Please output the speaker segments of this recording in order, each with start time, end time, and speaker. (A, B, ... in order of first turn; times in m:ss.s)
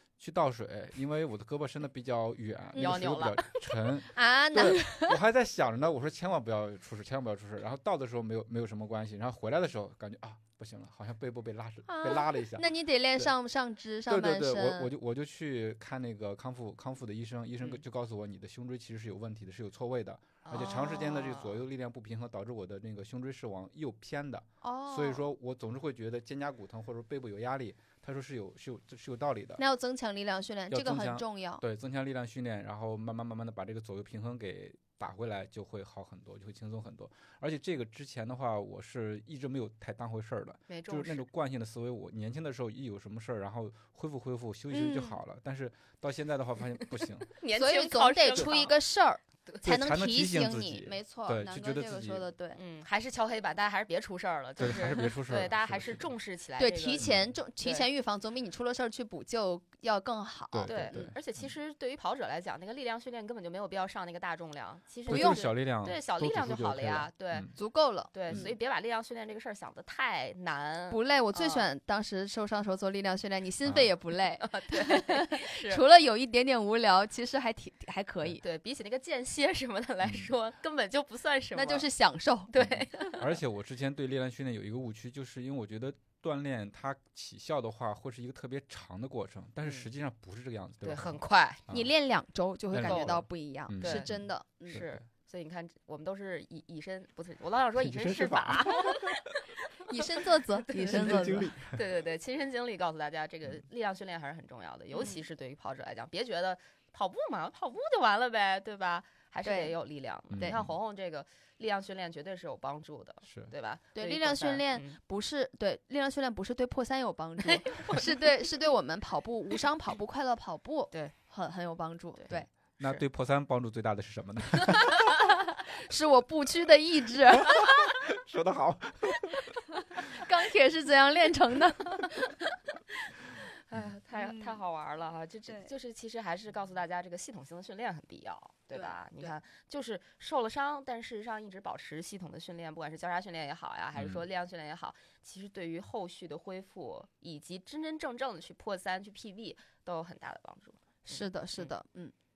0:00.2-0:12.6 A
0:02.8-0:03.0 B
0:02.8-0:03.6 C
0:04.1-0:05.2 B
0:11.9-0:14.9 B
0:14.1-0:29.6 A
0:20.4-0:21.6 C
0:24.6-0:25.2 B
0:29.6-0:31.6 B
0:30.7-0:47.3 A
0:40.7-0:41.2 C
0:44.7-0:45.2 B
0:47.3-0:48.7 C
0:47.5-0:52.6 B
0:49.6-0:52.2 A
0:52.6-0:57.1 C
0:54.6-0:56.1 A
0:56.6-1:01.1 B
0:57.0-0:57.3 A
1:00.5-1:01.5 A
1:00.7-1:07.5 C
1:05.0-1:07.5 A
1:05.1-1:05.4 B
1:07.6-1:08.5 B
1:08.1-1:11.6 C
1:10.9-1:18.4 B
1:13.6-1:13.9 A
1:14.4-1:15.8 C
1:18.4-1:21.9 C
1:20.0-1:20.3 A
1:21.5-1:23.1 B
1:22.5-1:23.4 C
1:22.6-1:31.9 A
1:29.6-1:29.9 C
1:30.8-1:31.6 C
1:31.7-1:34.8 B
1:32.7-1:35.0 A
1:32.8-1:33.2 C
1:33.8-1:34.1 C
1:34.6-1:39.4 C
1:37.8-1:39.2 A
1:39.9-1:41.5 B
1:40.7-1:55.0 C
1:40.8-1:41.8 A
1:44.9-1:45.2 B
1:49.4-1:49.7 B
1:50.3-1:50.7 A
1:53.9-2:02.5 B
1:57.4-1:58.3 C
2:02.2-2:03.0 C
2:02.3-2:04.9 A
2:05.8-2:07.7 B
2:07.5-2:09.5 A
2:09.9-2:12.6 B
2:13.7-2:31.7 C
2:14.2-2:14.6 B
2:18.7-2:19.3 B
2:23.9-2:24.2 A
2:31.0-2:32.1 B